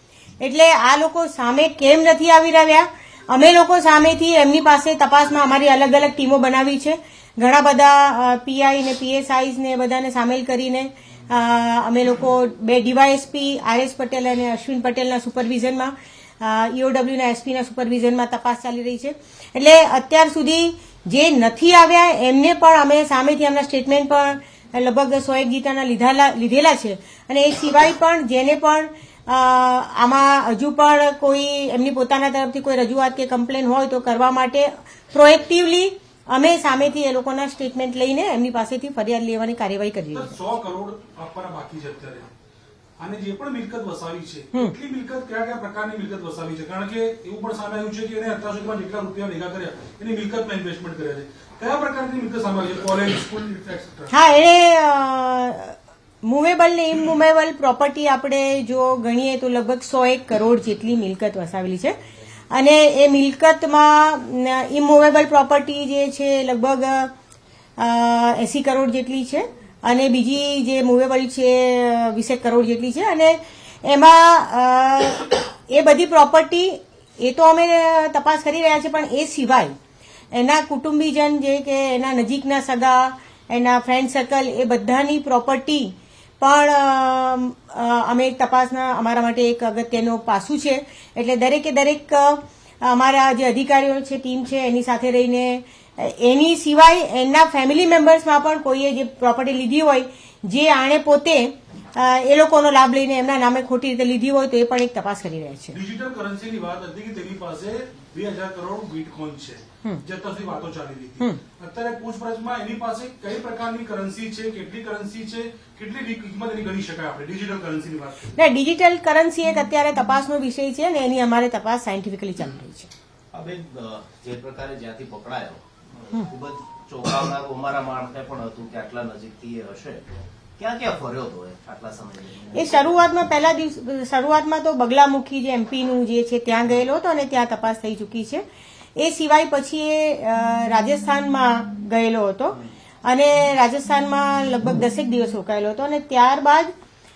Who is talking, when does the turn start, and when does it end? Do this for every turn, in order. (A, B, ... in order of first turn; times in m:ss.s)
0:00.4-0:40.4 A
0:40.1-0:42.3 B
0:43.0-0:54.1 B
0:54.1-1:02.0 A
1:02.5-1:07.1 A
1:07.8-1:19.7 A
1:20.3-1:45.8 A
1:45.7-1:58.4 B
1:58.3-2:02.9 A
2:03.3-2:10.0 C
2:10.6-2:13.0 C
2:12.6-2:18.4 A
2:19.0-2:26.7 A